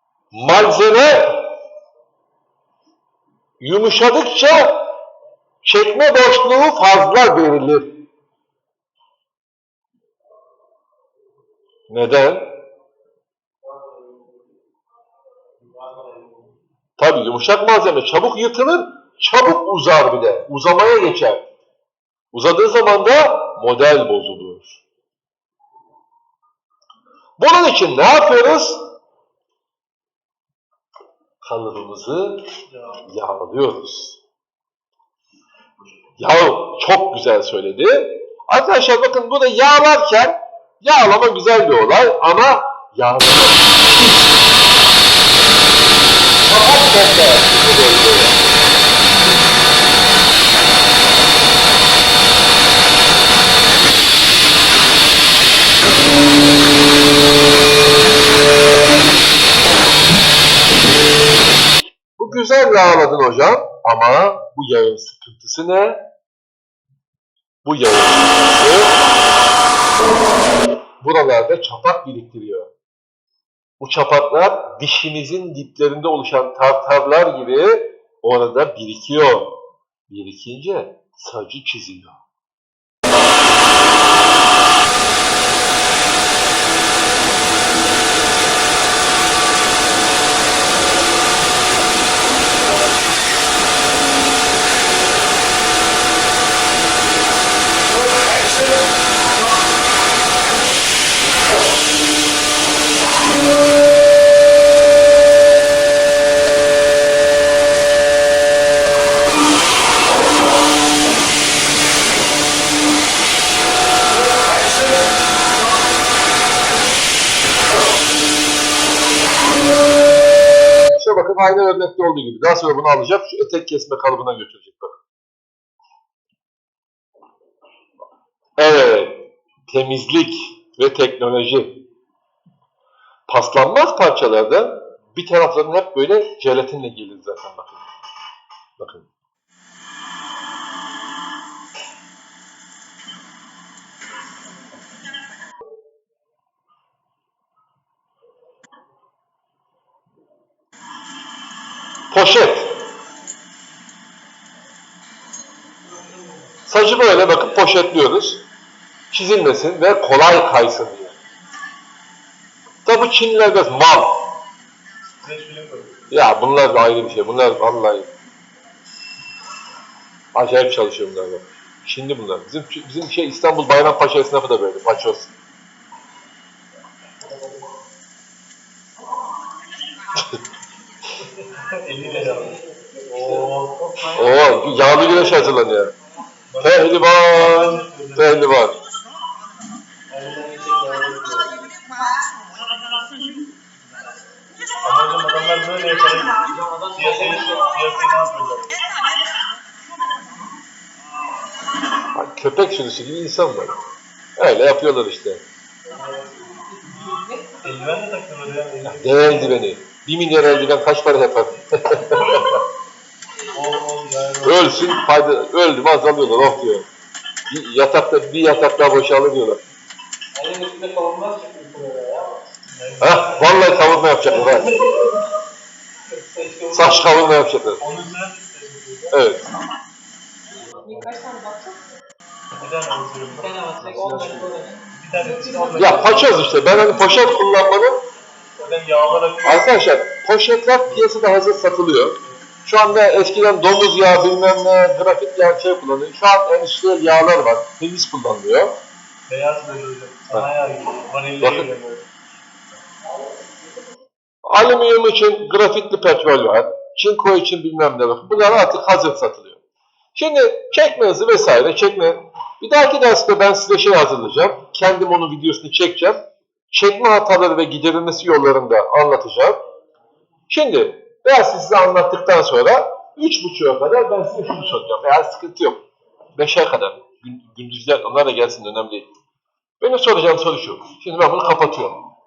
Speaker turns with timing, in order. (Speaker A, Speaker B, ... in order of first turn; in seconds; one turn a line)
Speaker A: 0.3-1.6
Speaker A: 3.6-4.9
Speaker A: 5.6-8.0
Speaker A: 11.9-12.6
Speaker A: 17.0-21.5
Speaker A: 22.3-24.8
Speaker A: 27.4-28.8
Speaker A: 31.4-32.5
Speaker B: 32.7-33.0
Speaker A: 33.0-34.2
Speaker A: 36.2-44.1
Speaker A: 46.4-48.4
Speaker A: 62.2-66.0
Speaker A: 67.7-69.0
Speaker A: 71.0-72.7
Speaker A: 73.8-79.6
Speaker A: 80.1-82.2
Speaker A: 120.9-125.0
Speaker A: 128.6-131.8
Speaker A: 133.3-137.8
Speaker A: 138.8-139.1
Speaker A: 152.1-152.8
Speaker A: 156.7-158.4
Speaker A: 159.1-161.1
Speaker A: 162.8-164.4
Speaker B: 165.2-166.1
Speaker A: 166.1-168.1
Speaker A: 170.3-175.3
Speaker B: 181.8-182.6
Speaker C: 181.9-185.5
Speaker B: 183.1-183.9
Speaker A: 184.2-185.9
Speaker B: 186.5-188.6
Speaker A: 186.6-188.8
Speaker C: 190.1-191.6
Speaker B: 194.8-198.8
Speaker C: 196.4-197.8
Speaker A: 202.1-203.8
Speaker A: 204.4-205.4
Speaker B: 205.9-207.1
Speaker D: 206.6-207.6
Speaker B: 207.6-209.6
Speaker A: 208.9-212.6
Speaker B: 213.5-214.9
Speaker A: 214.4-216.9
Speaker A: 217.5-219.6
Speaker C: 220.4-222.4
Speaker B: 222.7-223.7
Speaker A: 223.0-224.7
Speaker C: 224.2-224.7
Speaker C: 226.3-227.2
Speaker A: 226.7-227.8
Speaker B: 227.8-229.2
Speaker A: 229.1-229.5
Speaker D: 230.7-231.8
Speaker B: 232.6-234.3
Speaker C: 233.4-236.2
Speaker B: 234.9-236.5
Speaker D: 235.1-236.4
Speaker A: 235.8-238.0
Speaker B: 238.6-239.8
Speaker A: 239.4-248.7
Speaker B: 249.3-252.1
Speaker A: 251.4-251.7
Speaker A: 254.5-259.6
Speaker A: 260.1-266.2
Speaker A: 266.7-269.6
Speaker A: 270.5-275.8
Speaker A: 276.4-279.1
Speaker A: 279.8-282.1